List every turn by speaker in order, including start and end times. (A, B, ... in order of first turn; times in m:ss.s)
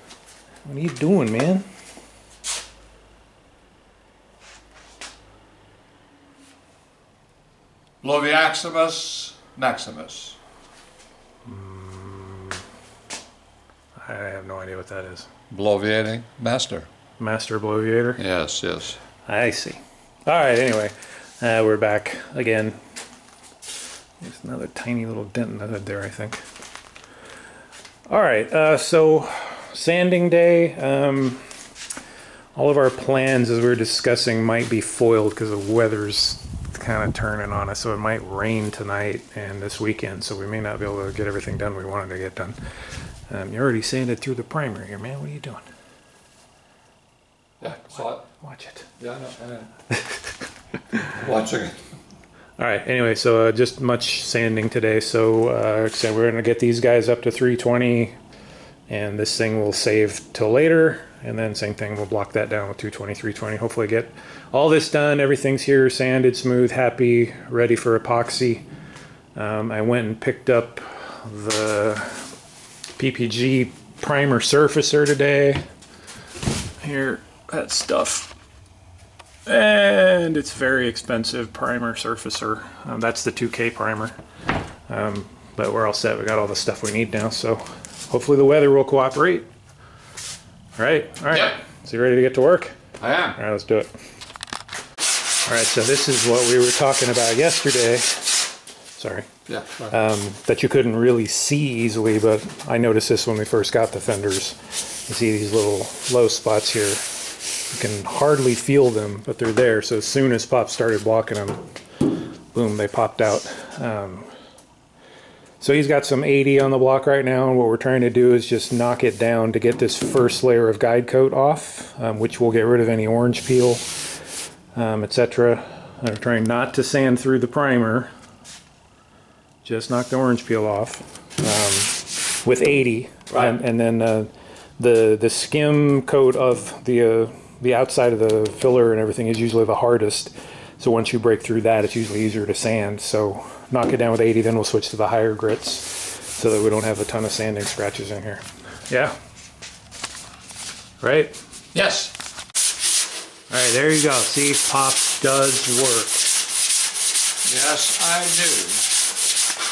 0:00.6-0:01.6 A
0:08.0-0:10.4 B
0:11.4-0:12.6 A
0:14.0-0:15.3 A
0:15.5-0:16.9 B
0:17.2-0:18.2 A
0:18.2-0:19.0 B
0:19.2-0:22.8 A
0:24.2-0:26.4 A
0:28.1-0:31.5 A
0:32.6-0:42.6 A
0:43.3-0:45.6 A
0:47.6-0:48.2 B
0:47.7-0:48.9 A
0:49.0-0:49.6 B
0:49.9-0:51.2 A
0:51.2-0:51.8 B
0:52.6-0:58.2 A
0:58.9-1:08.6 A
1:09.4-1:12.3 A
1:13.0-1:15.6 A
1:16.8-1:18.3 A
1:19.4-1:24.1 A
1:24.9-1:29.5 A
1:30.8-1:32.8 A
1:33.0-1:33.4 B
1:33.3-1:33.9 A
1:35.4-1:38.4 A
1:39.0-1:39.3 A
1:39.5-1:39.9 B
1:39.9-1:47.0 A
1:47.7-1:51.6 A
1:52.5-1:54.3 A
1:55.6-2:03.9 A
2:04.7-2:08.1 A
2:09.6-2:29.2 A
2:31.0-2:31.4 A
2:31.7-2:32.1 B
2:33.5-2:36.3 A
2:37.4-2:39.0 B